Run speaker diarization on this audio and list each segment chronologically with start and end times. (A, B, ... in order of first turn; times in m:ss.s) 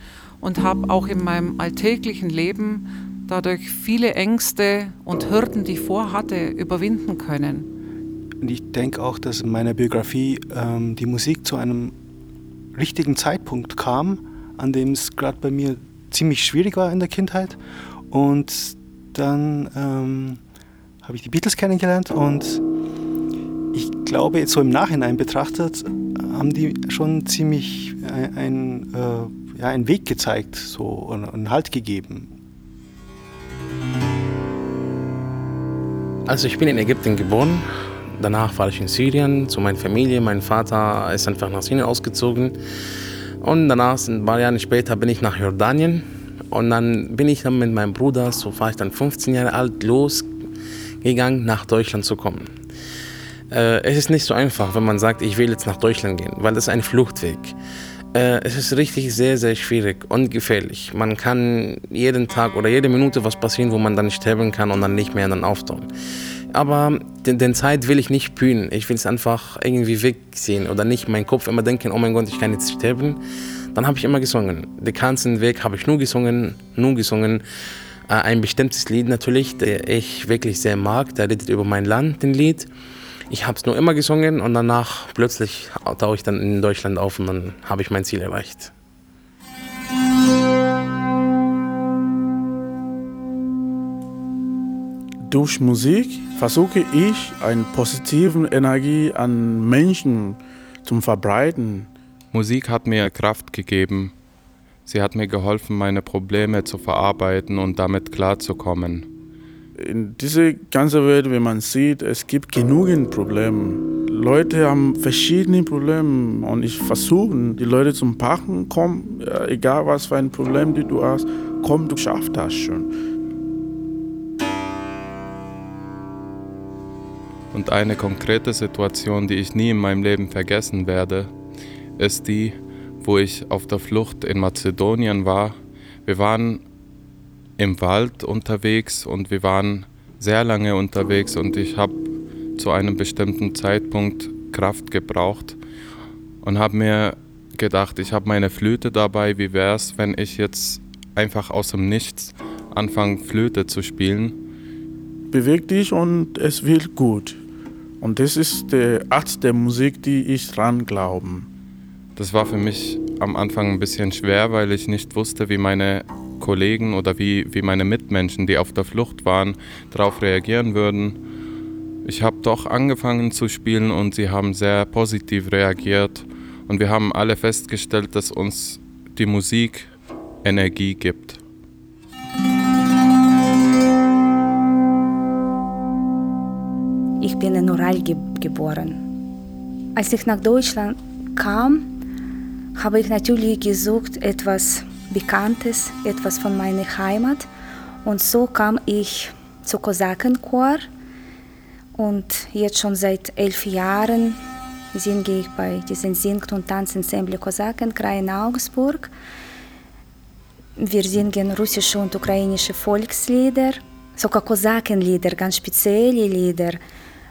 0:00.4-0:07.7 A
0:08.4-0:11.9 B
0:12.8-0:17.6 B
0:18.1-0:20.4 B
0:21.0-0:22.6 B
0:23.7-0:32.3 B
0:36.3-0:42.6 C
0:43.4-0:50.3 C
0:51.0-0:52.5 C
0:53.5-0:57.6 C
0:58.2-1:05.9 C
1:06.5-1:13.2 C
1:13.8-1:17.4 C
1:18.1-1:22.7 C
1:23.3-1:28.7 C
1:35.3-1:41.9 D
1:42.3-1:44.1 E
1:44.9-1:49.1 E
1:49.8-2:02.9 D
2:07.5-2:11.3 E
2:12.0-2:16.6 E
2:17.6-2:22.0 E
2:22.6-2:25.6 E
2:26.4-2:34.4 E
2:35.3-2:37.4 D
2:38.0-2:41.5 D
2:42.2-2:51.2 E
2:52.0-2:59.9 E
3:00.4-3:01.4 E
3:07.2-3:09.0 F
3:10.0-3:11.8 F
3:12.8-3:17.5 F
3:18.0-3:20.9 F
3:22.0-3:24.4 F
3:24.9-3:29.1 F
3:30.8-3:36.8 F